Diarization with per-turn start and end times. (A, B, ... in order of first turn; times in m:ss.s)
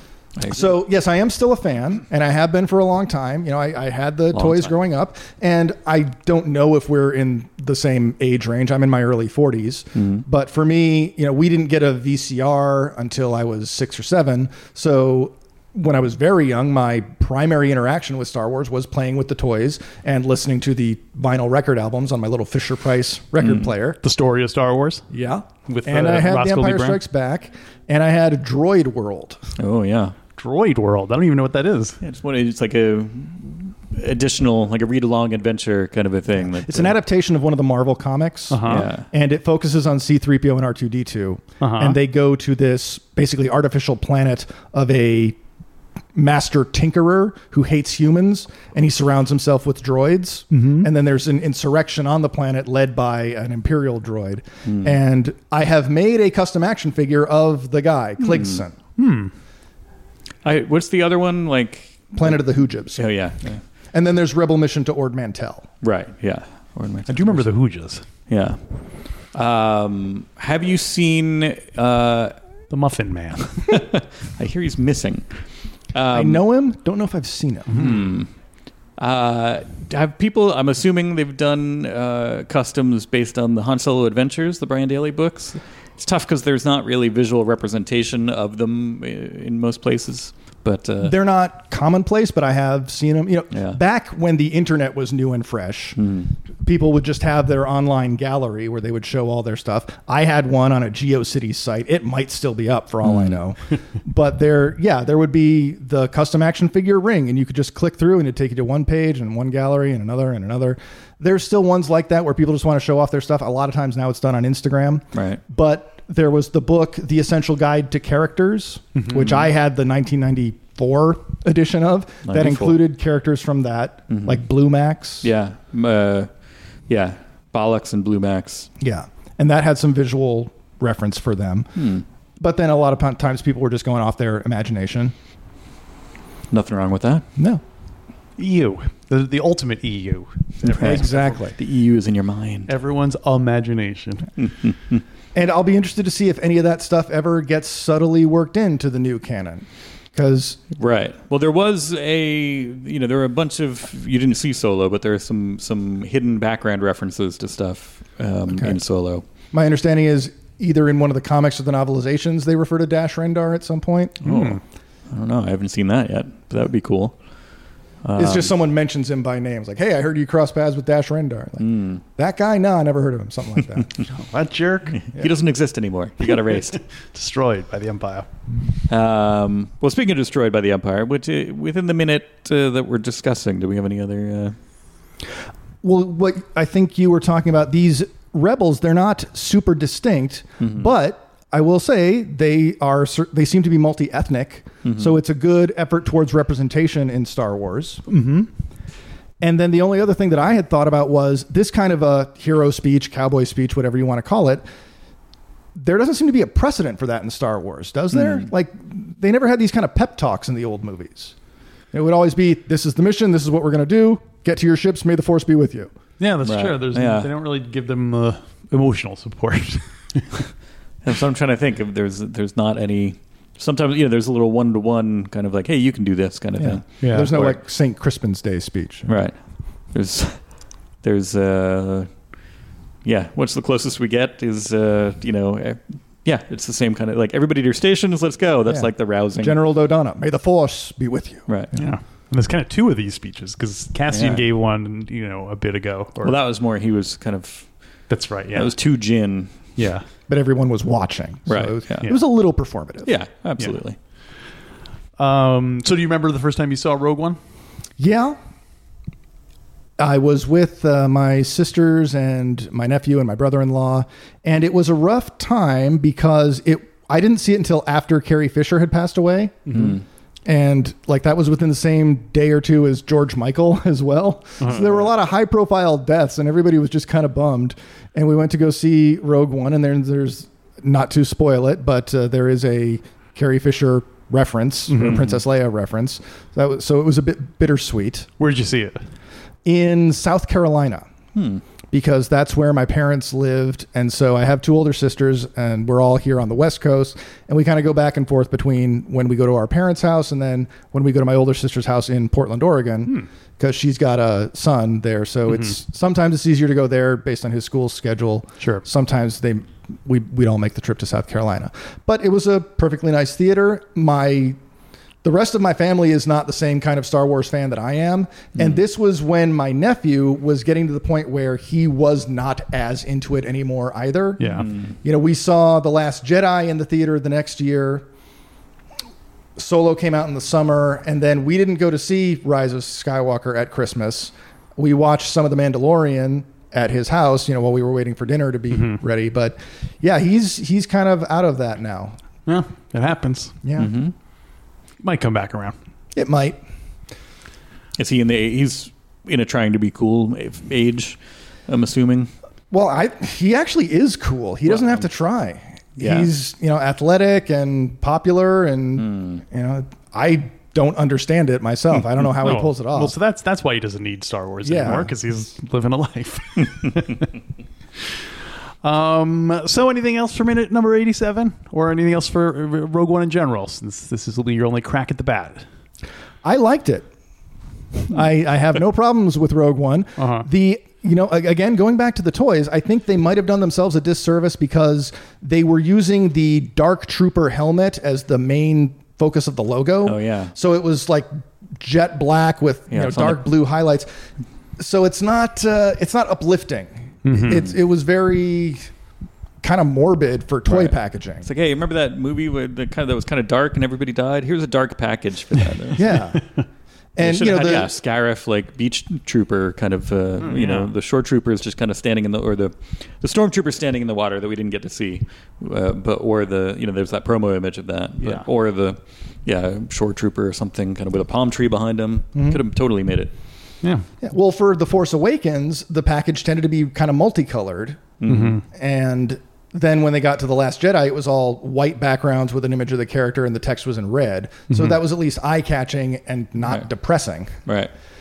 0:00.4-0:00.8 A
0:00.4-0:24.0 B
0:04.3-0:04.7 A
0:10.0-0:10.2 A
0:23.4-0:23.7 A
0:24.0-0:25.0 C
0:25.1-0:29.4 B
0:25.7-0:27.0 C
0:29.6-0:30.1 A
0:30.4-0:32.0 C
0:32.0-0:37.0 A
0:36.4-0:45.4 B
0:38.5-0:38.8 C
0:38.6-0:39.0 A
0:41.6-0:42.0 C
0:46.1-0:58.8 B
0:50.5-0:50.9 C
0:54.6-0:55.0 A
0:58.3-0:58.6 A
0:59.0-0:59.3 C
1:00.4-1:02.4 A
1:02.1-1:03.1 B
1:02.9-1:03.6 A
1:03.9-1:05.7 B
1:05.8-1:07.5 A
1:07.1-1:08.0 C
1:08.3-1:08.6 A
1:09.3-1:12.3 A
1:12.7-1:13.7 C
1:13.7-1:15.2 A
1:15.9-1:16.4 A
1:16.1-1:17.8 B
1:17.7-1:18.0 C
1:17.7-1:18.3 A
1:19.0-1:31.2 A
1:31.0-1:36.0 B
1:33.5-1:33.8 A
1:36.0-1:36.3 A
1:36.6-2:05.3 B
1:43.0-1:43.4 A
1:55.1-1:55.4 A
1:59.0-1:59.2 C
1:59.2-1:59.4 A
2:02.2-2:02.8 A
2:04.1-2:04.4 A
2:05.2-2:06.3 A
2:06.9-2:08.7 A
2:08.8-2:11.7 B
2:11.8-2:12.0 A
2:12.4-2:15.1 B
2:16.5-2:17.3 A
2:17.4-2:17.6 B
2:18.4-2:21.3 C
2:20.7-2:22.7 A
2:20.7-2:21.5 B
2:22.7-2:24.3 C
2:24.4-2:25.0 A
2:25.3-2:30.6 B
2:30.8-2:39.2 A
2:38.5-2:38.8 B
2:39.5-2:44.2 B
2:44.2-2:44.6 C
2:44.2-2:47.1 A
2:48.0-2:48.5 A
2:48.2-2:54.0 B
2:51.6-2:52.0 A
2:54.1-2:55.0 C
2:55.0-2:56.8 A
2:57.1-2:58.3 C
2:58.9-3:04.6 A
3:05.8-3:18.0 B
3:10.6-3:10.9 A
3:14.8-3:15.2 A
3:18.1-3:18.5 C
3:19.4-3:24.6 B
3:25.8-3:31.3 B
3:28.1-3:28.5 A
3:31.9-3:35.9 B
3:36.2-3:40.4 C
3:36.4-3:37.3 A
3:41.0-3:47.6 A
3:46.6-3:49.2 B
3:47.0-3:47.3 C
3:49.1-3:49.4 A
3:49.9-3:50.4 A
3:51.0-3:52.1 A
3:53.0-3:59.6 A
3:58.7-4:01.9 B
4:01.5-4:01.7 A
4:01.7-4:06.4 C
4:04.1-4:04.4 A
4:06.2-4:07.7 A
4:08.1-4:08.7 C
4:08.5-4:09.5 A
4:09.8-4:10.0 C
4:10.3-4:13.1 B
4:11.5-4:12.1 A
4:13.0-4:14.0 A
4:15.2-4:17.4 C
4:18.0-4:18.4 B
4:20.0-4:29.9 B
4:29.7-4:30.0 C
4:29.7-4:30.0 A
4:30.5-4:48.3 B
4:34.6-4:34.9 C
4:44.9-4:45.3 C
4:48.4-4:49.0 C
4:49.6-4:51.1 B
4:51.3-4:51.6 A
4:51.9-5:14.6 B
5:08.6-5:08.8 C
5:15.2-5:28.0 B
5:24.4-5:24.7 C
5:24.5-5:24.9 A
5:29.6-5:42.2 B
5:38.7-5:39.0 C
5:42.5-5:43.5 C
5:43.6-5:43.9 B
5:43.8-5:44.1 A
5:45.0-5:45.7 C
5:46.1-5:46.6 B
5:48.0-5:52.3 A
5:52.7-6:03.2 B
5:54.7-5:55.0 A
5:56.0-5:56.3 A
5:59.0-5:59.4 A
6:02.4-6:07.3 C
6:04.6-6:05.1 B
6:08.8-6:15.6 C
6:16.4-6:17.1 B
6:18.1-6:34.1 B
6:20.2-6:20.5 C
6:30.0-6:30.5 A
6:32.9-6:33.5 A
6:34.8-6:38.8 B
6:37.2-6:37.6 C
6:39.6-6:41.5 B
6:40.7-6:46.2 A
6:46.0-6:46.4 B
6:47.2-6:47.9 B
6:47.2-7:03.3 A
6:50.4-6:50.9 C
7:02.4-7:02.6 B
7:04.2-7:08.1 B
7:08.2-7:08.6 A
7:08.2-7:08.6 C
7:08.7-7:17.6 B
7:14.7-7:15.0 C
7:17.6-7:17.9 A